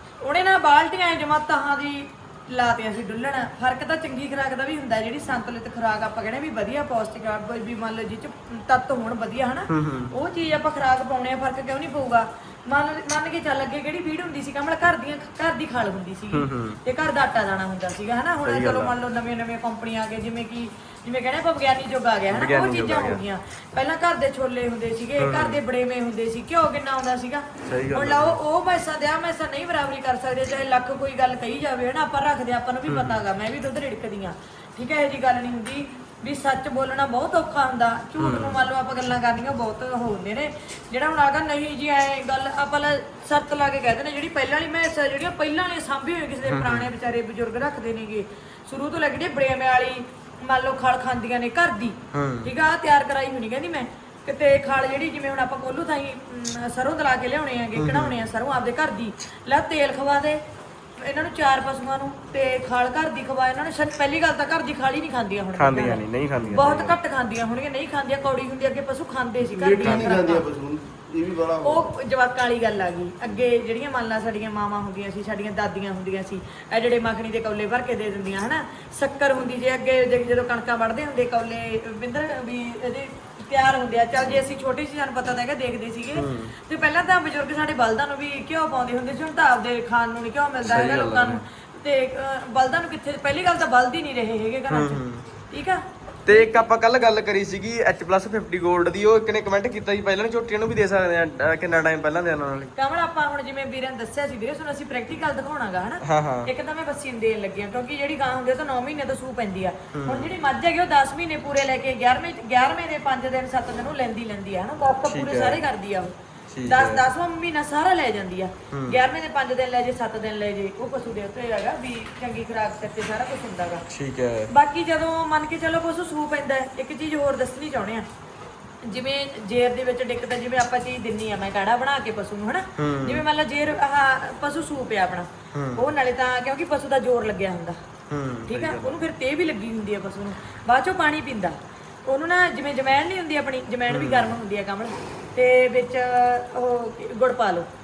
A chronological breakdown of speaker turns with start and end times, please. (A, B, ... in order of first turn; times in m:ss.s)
0:00.2-1:00.4 A
0:09.7-0:10.1 B
0:16.3-0:16.8 B
0:18.4-0:18.9 B
0:22.3-0:23.2 B
0:25.2-0:25.6 B
0:27.6-0:28.4 B
0:32.9-0:33.2 B
0:38.2-0:38.6 B
0:46.5-0:46.9 B
0:52.1-0:52.5 B
0:57.7-0:58.2 B
1:01.0-1:10.4 A
1:05.6-1:07.0 B
1:09.5-1:11.8 C
1:09.8-1:10.2 B
1:11.6-1:36.7 A
1:26.1-1:26.5 B
1:30.6-1:31.4 B
1:34.7-1:35.2 B
1:36.2-1:42.7 B
1:42.7-1:56.1 A
1:46.0-1:46.5 B
1:49.9-1:50.3 B
1:55.1-1:55.6 B
1:56.5-1:57.0 B
1:56.6-2:03.8 A
1:58.7-1:59.0 B
2:03.9-2:04.5 B
2:04.5-2:08.0 A
2:08.8-2:17.8 A
2:12.8-2:13.2 B
2:15.5-2:15.9 B
2:18.1-2:19.0 B
2:18.5-2:21.6 A
2:22.1-2:27.7 A
2:23.9-2:24.4 B